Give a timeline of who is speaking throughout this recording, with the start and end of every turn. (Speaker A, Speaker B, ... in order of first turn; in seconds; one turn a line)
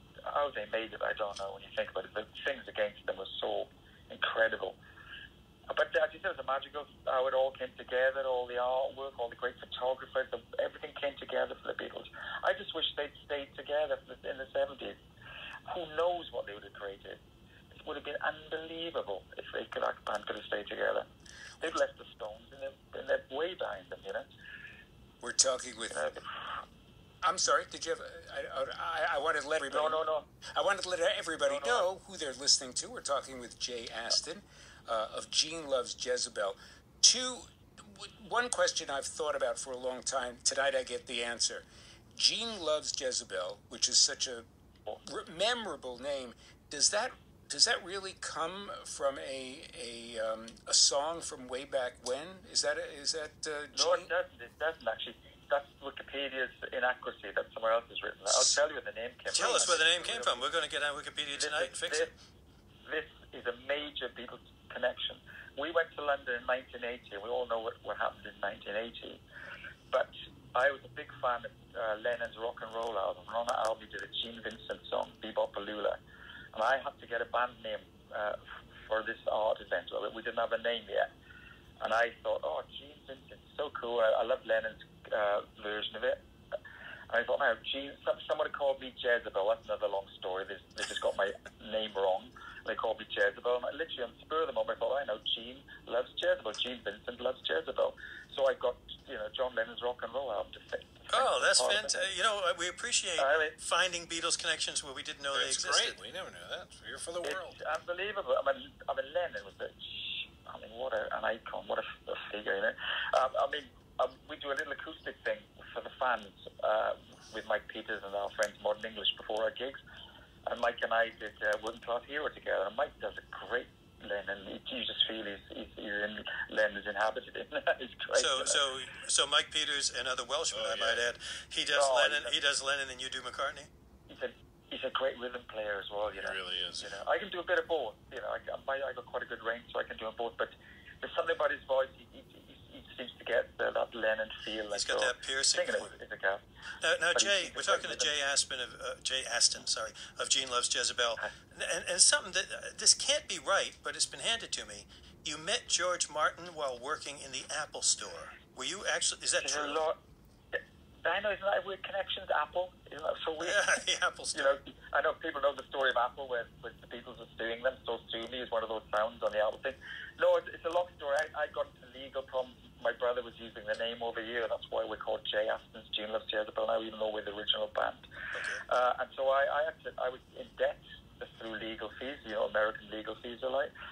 Speaker A: 0.3-4.8
Speaker A: 5.7-15.0
Speaker A: 15.7-17.2
Speaker A: 17.8-21.1
Speaker A: 21.6-24.3
Speaker B: 25.2-26.1
Speaker A: 25.9-26.5
Speaker B: 27.2-30.0
Speaker A: 29.7-30.3
Speaker B: 30.5-44.5
Speaker A: 31.4-31.9
Speaker B: 45.0-54.1
Speaker A: 53.7-60.5
Speaker C: 58.3-58.6
Speaker C: 59.3-62.1
Speaker A: 61.4-62.1
Speaker A: 62.9-69.2
Speaker A: 69.9-76.0
Speaker A: 76.5-81.1
Speaker A: 81.8-86.2
Speaker A: 87.1-102.1
Speaker C: 101.1-106.0
Speaker A: 103.2-103.5
Speaker D: 105.3-107.6
Speaker A: 107.2-119.8
Speaker A: 120.5-128.6
Speaker C: 128.1-133.7
Speaker D: 130.5-131.0
Speaker A: 131.8-132.3
Speaker A: 134.1-146.4
Speaker D: 136.2-136.9
Speaker C: 144.7-145.9
Speaker C: 146.8-159.8
Speaker A: 147.2-148.1
Speaker A: 159.4-160.0
Speaker A: 160.6-163.8
Speaker C: 163.4-164.6
Speaker A: 164.3-178.0
Speaker C: 178.3-178.6
Speaker A: 178.7-183.7